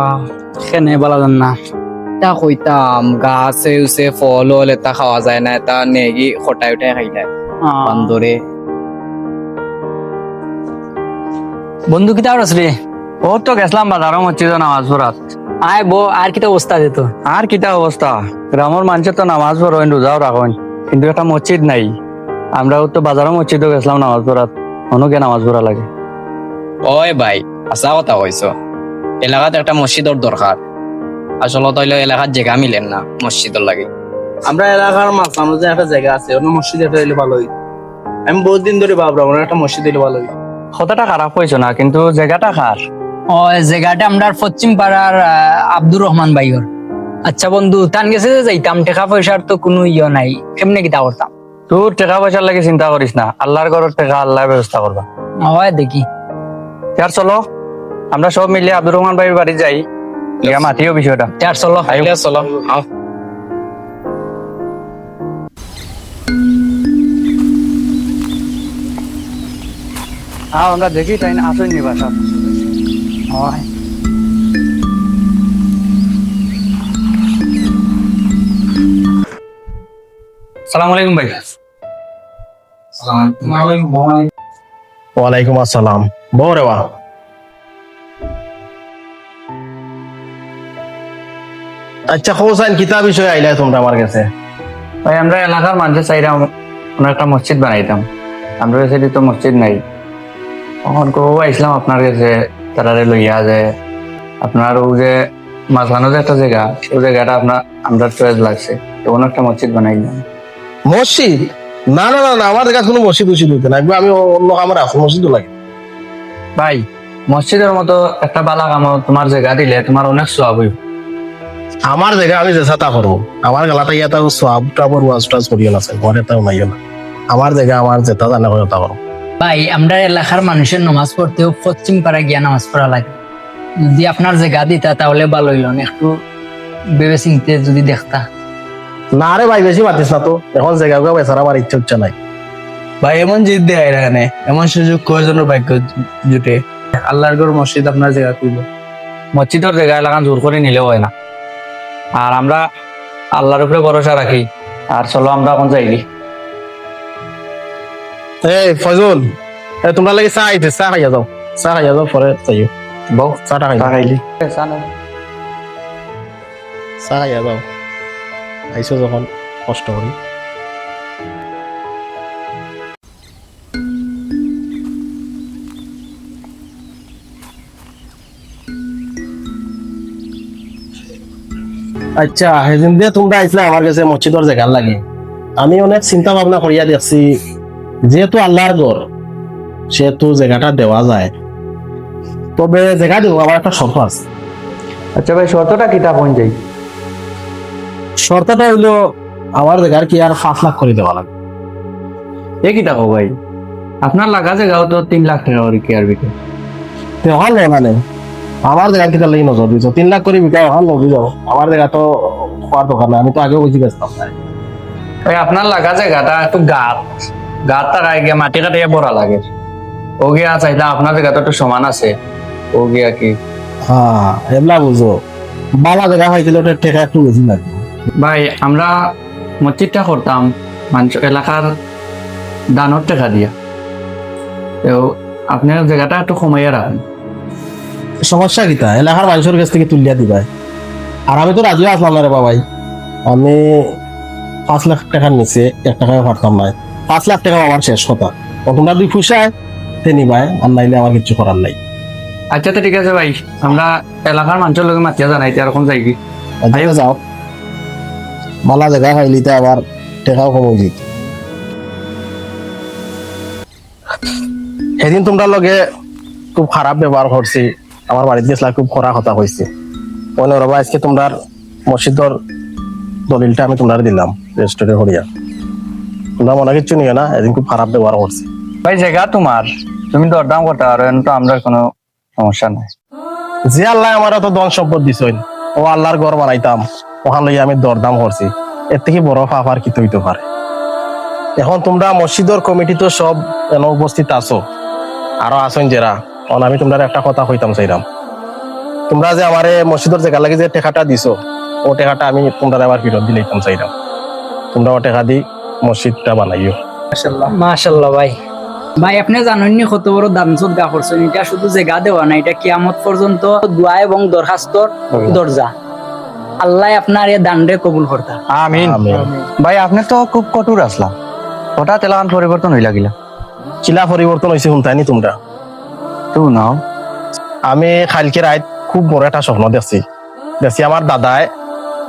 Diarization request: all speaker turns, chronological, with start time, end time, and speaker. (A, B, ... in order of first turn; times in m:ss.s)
0:00.6-0:01.5 A
0:02.2-0:07.3 B
0:07.6-0:08.2 A
0:07.9-0:08.4 B
0:11.9-0:12.7 A
0:13.2-0:15.2 C
0:15.7-0:17.1 A
0:17.2-0:21.9 C
0:22.6-0:25.9 C
0:26.8-0:28.5 B
0:29.2-0:30.6 B
0:31.4-0:33.9 B
0:34.5-0:37.5 D
0:38.3-0:40.3 D
0:40.8-0:42.8 C
0:43.3-0:46.7 A
0:47.3-0:51.3 A
0:51.7-0:55.1 C
0:55.5-0:56.1 A
0:57.0-0:57.4 C
0:58.1-0:59.9 C
1:00.4-1:01.3 C
1:01.4-1:01.9 A
1:01.9-1:02.5 C
1:01.9-1:02.9 B
1:10.5-1:12.2 C
1:13.3-1:13.6 C
1:20.7-1:21.5 C
1:23.0-1:24.2 C
1:25.2-1:26.8 E
1:32.1-1:34.2 E
1:35.0-1:36.5 C
1:37.0-1:38.1 C
1:38.6-1:39.8 C
1:40.9-1:43.6 C
1:44.4-1:45.1 C
1:45.7-1:50.2 C
1:50.9-1:55.5 E
1:56.6-2:00.8 C
2:01.9-2:06.8 E
2:07.3-2:09.0 E
2:09.4-2:13.2 A
2:13.8-2:16.1 A
2:17.0-2:18.2 A
2:19.2-2:22.1 E
2:23.0-2:28.7 D
2:29.3-2:31.1 C
2:32.2-2:32.6 C
2:33.4-2:36.0 C
2:38.4-2:39.2 E
2:39.8-2:42.7 E
2:43.2-2:44.9 C
2:43.5-2:44.0 E
2:47.0-2:47.6 E
2:48.7-2:50.2 E
3:02.2-3:05.0 E
3:05.6-3:07.2 E
3:08.1-3:09.0 E
3:09.9-3:11.3 E
3:12.6-3:14.2 E
3:15.2-3:16.6 C
3:18.2-3:19.0 E
3:19.6-3:21.3 E
3:22.7-3:23.4 C
3:24.0-3:26.3 C
3:27.2-3:28.0 E
3:28.6-3:34.3 E
3:35.2-3:37.1 C
3:37.7-3:39.4 C
3:40.2-3:42.1 C
3:42.8-3:43.4 C
3:43.9-3:45.2 E
3:45.8-3:47.8 E
3:48.2-3:48.9 C
3:49.6-3:51.7 C
3:52.8-3:53.5 C
3:54.8-3:57.0 C
3:58.3-4:00.5 E
4:01.3-4:02.6 E
4:03.3-4:04.0 E
4:04.7-4:09.5 E
4:10.0-4:11.8 E
4:12.5-4:16.2 C
4:16.6-4:17.2 E
4:16.7-4:17.0 C
4:18.7-4:21.0 E
4:25.0-4:25.8 E
4:26.6-4:29.7 E
4:30.4-4:31.3 E
4:31.9-4:32.4 E
4:33.3-4:35.3 E
4:36.4-4:38.5 E
4:38.8-4:41.8 C
4:42.4-4:42.9 C
4:43.7-4:50.4 E
4:51.6-4:54.6 E
4:55.4-4:58.0 E
4:59.1-5:01.3 E
5:01.9-5:03.9 E
5:04.7-5:06.8 E
5:07.2-5:07.5 D
5:07.5-5:08.3 A
5:09.0-5:15.7 A
5:16.6-5:18.4 A
5:18.5-5:21.1 C
5:18.7-5:19.3 E
5:21.8-5:23.1 C
5:23.8-5:25.4 E
5:26.3-5:26.8 C
5:27.7-5:30.0 E
5:30.6-5:31.5 E